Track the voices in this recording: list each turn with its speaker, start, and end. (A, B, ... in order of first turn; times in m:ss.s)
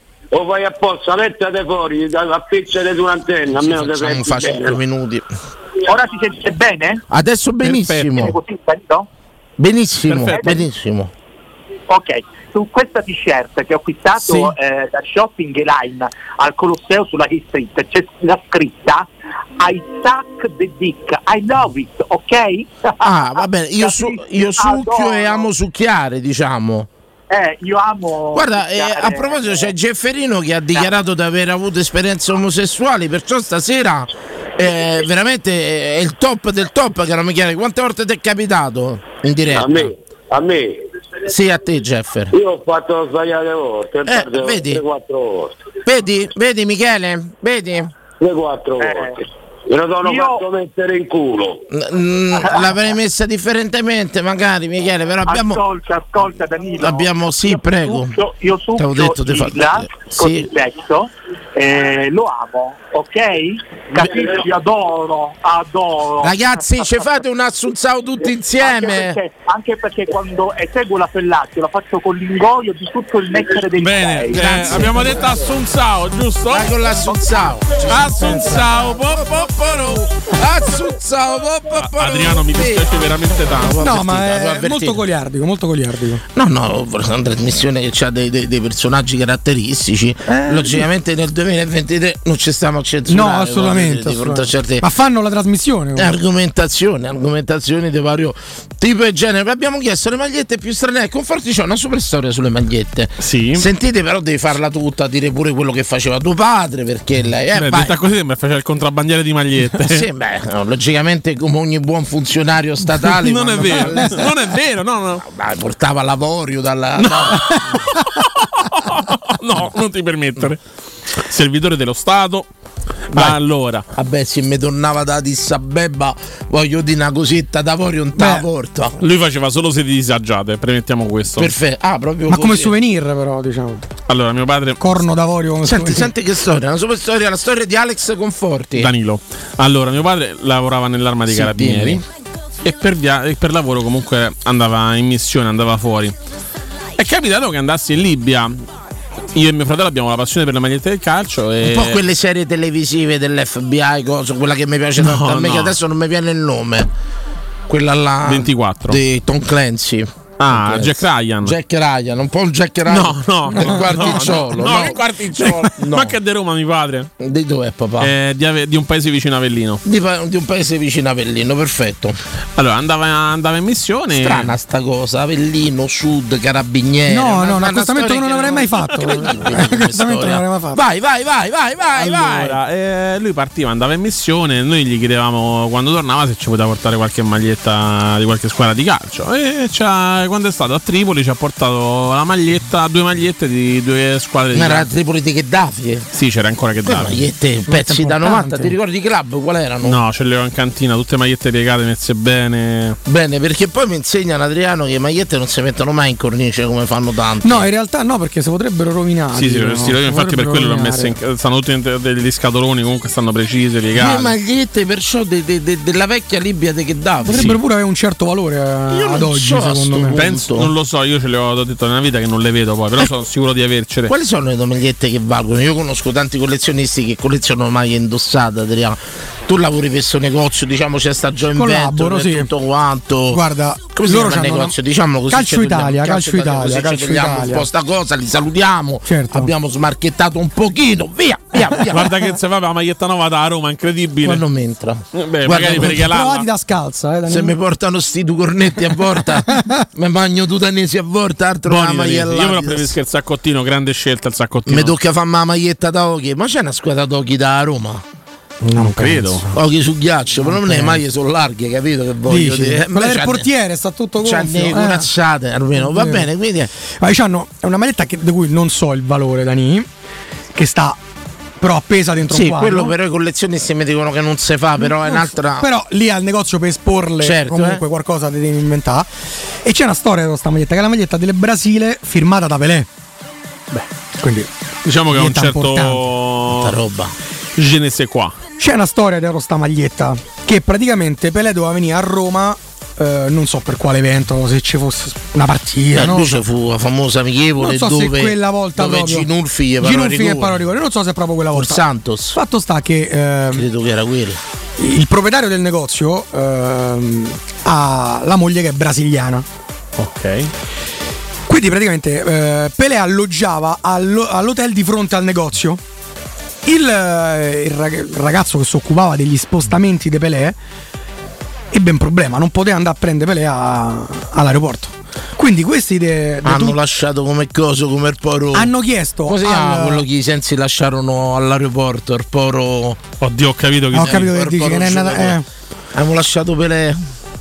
0:00.3-0:04.8 A
0:03.6-0:05.3 B
0:05.9-0:07.0 C
0:07.1-0:08.4 B
0:07.6-0:08.2 D
0:08.1-0:09.1 C
0:09.6-0:11.1 B
0:10.1-0:10.4 D
0:10.3-0:10.6 C
0:11.9-0:19.1 C
0:19.6-0:25.5 C
0:23.0-0:26.9 B
0:27.3-0:29.7 C
0:28.3-0:39.9 B
0:39.5-0:40.8 A
0:41.3-0:42.3 B
0:42.3-0:45.6 A
0:44.1-0:44.8 B
0:45.8-0:47.9 B
0:48.2-0:51.6 A
0:48.8-0:49.2 C
0:50.0-0:50.4 C
0:51.7-0:55.6 B
0:55.2-1:06.9 C
0:56.8-0:58.2 B
0:58.8-1:00.5 B
1:06.2-1:09.2 B
1:08.6-1:14.9 C
1:13.8-1:16.8 D
1:14.4-1:15.3 B
1:16.5-1:25.0 B
1:17.8-1:19.7 D
1:18.1-1:18.6 E
1:21.8-1:23.8 D
1:23.8-1:26.2 E
1:26.3-1:34.8 B
1:30.3-1:30.9 E
1:33.1-1:36.1 E
1:36.0-1:47.9 B
1:43.2-1:43.7 D
1:47.5-1:50.0 D
1:49.8-1:54.3 B
1:52.9-1:55.2 D
1:53.8-1:54.0 E
1:55.2-1:57.7 B
1:57.0-1:58.0 D
1:58.6-2:00.6 D
2:01.2-2:02.5 D
2:03.1-2:03.8 D
2:03.9-2:09.0 B
2:08.2-2:08.4 E
2:09.0-2:11.5 D
2:11.4-2:12.7 B
2:12.3-2:13.9 E
2:14.1-2:14.8 D
2:14.8-2:16.1 E
2:15.6-2:18.9 B
2:18.8-2:22.0 D
2:21.3-2:22.0 B
2:22.6-2:26.1 D
2:27.0-2:28.6 D
2:29.3-2:32.0 D
2:31.6-2:36.9 B
2:35.0-2:35.8 D
2:37.7-2:45.0 B
2:38.2-2:39.0 D
2:40.4-2:41.6 D
2:42.8-2:47.1 D
2:43.5-2:44.2 E
2:45.8-2:46.1 B
2:47.2-2:48.1 B
2:48.0-2:49.8 D
2:49.8-2:52.2 B
2:52.6-2:54.5 D
2:54.1-3:02.6 B
2:57.1-3:00.8 E
3:01.9-3:14.9 D
3:14.5-3:16.0 B
3:16.1-3:17.3 D
3:16.8-3:20.0 B
3:17.7-3:18.8 E
3:19.8-3:23.0 D
3:23.0-3:27.7 B
3:27.4-3:31.2 E
3:29.3-3:34.3 D
3:34.0-3:37.6 B
3:37.2-3:40.2 E
3:38.9-3:40.7 B
3:40.1-3:44.1 D
3:44.1-3:53.4 B
3:51.5-3:52.5 E
3:53.3-3:54.7 E
3:54.0-4:02.1 B
3:55.3-3:57.6 E
3:59.0-3:59.5 E
4:01.9-4:04.4 D
4:04.2-4:06.0 B
4:05.1-4:06.4 D
4:05.6-4:07.6 E
4:07.3-4:12.9 B
4:09.2-4:09.8 E
4:11.6-4:14.9 D
4:14.7-4:18.0 B
4:18.6-4:19.5 E
4:18.8-4:19.4 D
4:19.5-4:23.4 B
4:20.4-4:21.0 E
4:22.2-4:25.1 E
4:24.2-4:26.7 B
4:25.8-4:26.3 E
4:27.0-4:29.9 E
4:30.5-4:31.0 E
4:31.6-4:32.9 E
4:32.3-4:35.7 B
4:34.8-4:39.1 E
4:37.2-4:37.8 B
4:39.6-4:42.9 E
4:44.2-4:44.5 E
4:44.8-4:46.8 D
4:45.1-4:46.0 E
4:46.5-4:47.1 B
4:47.6-4:48.4 D
4:48.6-4:56.4 E
4:55.9-5:00.6 B
4:57.6-4:59.3 E
4:59.8-5:01.8 E
5:01.5-5:02.4 B
5:02.3-5:03.6 E
5:03.5-5:04.4 B
5:04.8-5:09.4 E
5:10.0-5:10.5 D
5:11.5-5:15.8 E
5:16.6-5:20.6 E
5:21.7-5:26.8 E
5:26.4-5:28.7 B
5:28.5-5:30.0 E
5:29.2-5:33.0 B
5:33.2-5:34.3 D
5:33.9-5:35.4 E
5:33.9-5:35.4 B
5:35.9-5:37.0 B